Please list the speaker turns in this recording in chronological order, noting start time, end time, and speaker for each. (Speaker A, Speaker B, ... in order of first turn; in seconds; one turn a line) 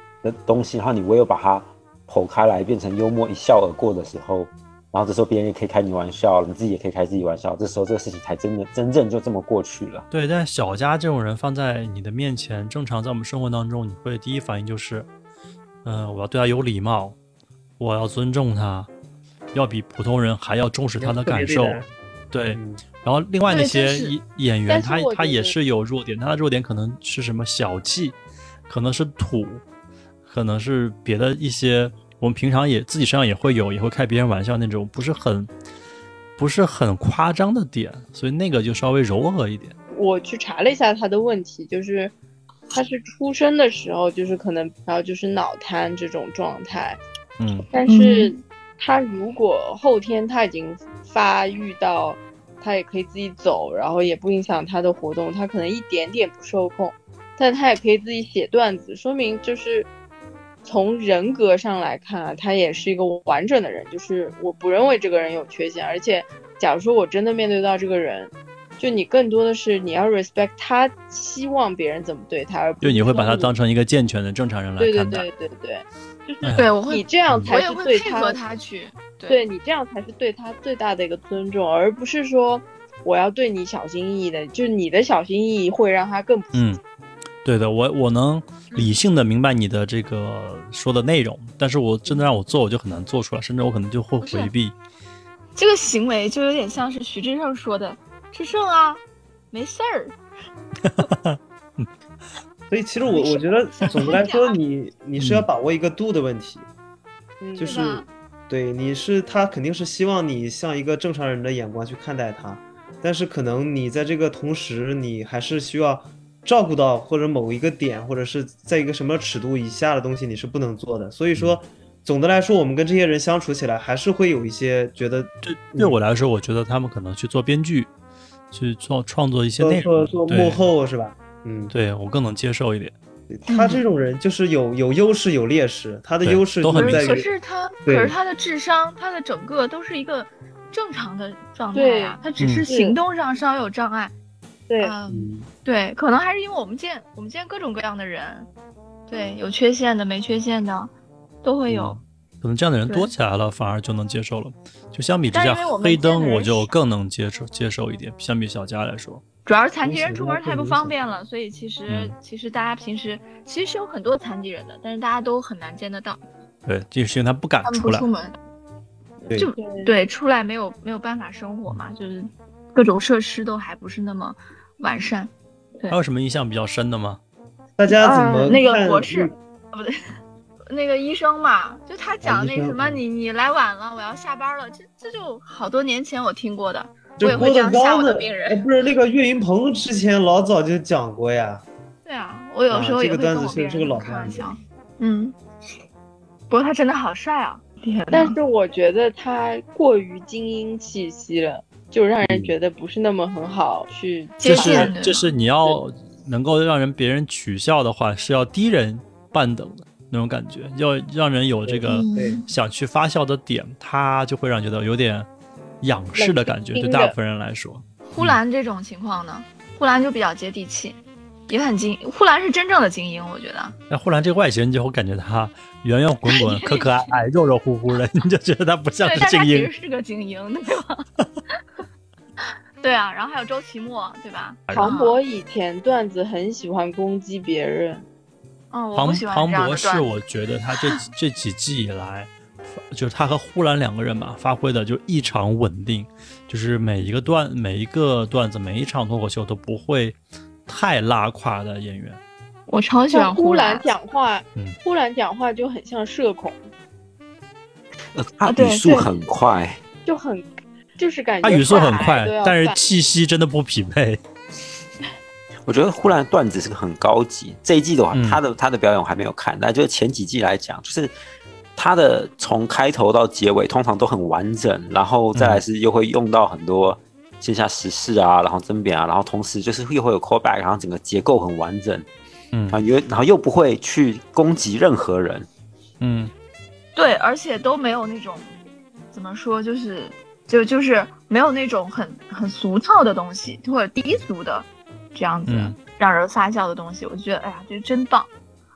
Speaker A: 0.2-10.1
Speaker B: 10.1-15.1
Speaker B: 15.8-17.2
Speaker B: 17.8-18.9
Speaker B: 19.5-28.2
Speaker C: 21.0-21.9
Speaker C: 22.5-22.8
Speaker D: 23.5-24.1
Speaker E: 24.7-25.6
Speaker B: 28.7-29.6
Speaker B: 30.3-35.5
Speaker B: 36.4-39.8
Speaker E: 40.0-42.1
Speaker E: 42.7-47.0
Speaker B: 47.4-47.7
Speaker E: 47.7-59.9
Speaker D: 47.8-48.4
Speaker E: 60.6-73.5
Speaker B: 72.8-75.3
Speaker E: 74.8-78.4
Speaker B: 76.4-76.7
Speaker D: 76.6-79.4
Speaker B: 77.3-77.6
Speaker E: 79.3-86.7
Speaker B: 86.5-86.8
Speaker B: 87.4-94.8
Speaker D: 88.7-89.0
Speaker D: 94.2-94.5
Speaker D: 95.6-99.0
Speaker D: 99.5-100.2
Speaker B: 100.8-101.9
Speaker C: 102.7-106.7
Speaker D: 103.0-104.6
Speaker B: 105.2-105.5
Speaker E: 107.4-107.7
Speaker C: 107.6-126.0
Speaker D: 107.6-108.1
Speaker B: 125.4-127.9
Speaker B: 128.5-130.7
Speaker C: 129.6-131.7
Speaker B: 131.7-132.9
Speaker C: 133.3-137.3
Speaker D: 133.5-133.8
Speaker B: 136.2-137.1
Speaker D: 136.7-144.1
Speaker C: 137.9-138.2
Speaker E: 141.7-143.0
Speaker B: 142.4-142.7
Speaker E: 144.7-145.0
Speaker D: 144.8-148.5
Speaker C: 145.1-145.5
Speaker D: 149.1-150.9
Speaker D: 151.4-152.0
Speaker C: 151.7-152.0
Speaker B: 152.4-159.2
Speaker D: 155.3-156.7
Speaker D: 159.5-166.2
Speaker C: 159.8-160.9
Speaker B: 161.9-162.2
Speaker B: 166.7-168.1
Speaker D: 167.6-168.3
Speaker C: 169.2-169.5
Speaker D: 169.3-176.0
Speaker E: 169.5-169.9
Speaker B: 175.9-177.2
Speaker C: 177.8-179.3
Speaker D: 177.9-180.0
Speaker E: 178.1-178.6
Speaker D: 180.7-188.6
Speaker C: 182.2-183.0
Speaker C: 187.2-191.6
Speaker D: 192.1-195.3
Speaker C: 192.7-194.5
Speaker D: 196.5-198.4
Speaker E: 198.1-204.9
Speaker D: 204.4-205.3
Speaker B: 204.4-215.3
Speaker C: 211.7-212.4
Speaker D: 211.8-212.5
Speaker B: 215.8-218.4
Speaker E: 216.2-217.1
Speaker D: 218.1-221.0
Speaker D: 221.5-223.8
Speaker B: 223.9-229.7
Speaker D: 226.3-227.2
Speaker D: 229.0-231.1
Speaker D: 232.8-235.2
Speaker B: 234.7-235.0
Speaker E: 234.7-238.1
Speaker D: 238.7-240.2
Speaker B: 239.0-242.3
Speaker B: 242.9-252.2
Speaker D: 252.7-253.9
Speaker E: 253.1-256.6
Speaker A: 258.1-259.8
Speaker D: 258.4-259.1
Speaker E: 260.1-262.8
Speaker B: 261.4-264.2
Speaker A: 265.7-271.1
Speaker B: 268.1-268.4
Speaker A: 271.8-282.1
Speaker B: 275.4-275.6
Speaker B: 282.5-282.8
Speaker A: 282.7-285.5
Speaker B: 286.0-286.3
Speaker D: 287.0-288.5
Speaker D: 289.1-298.3
Speaker B: 295.5-295.8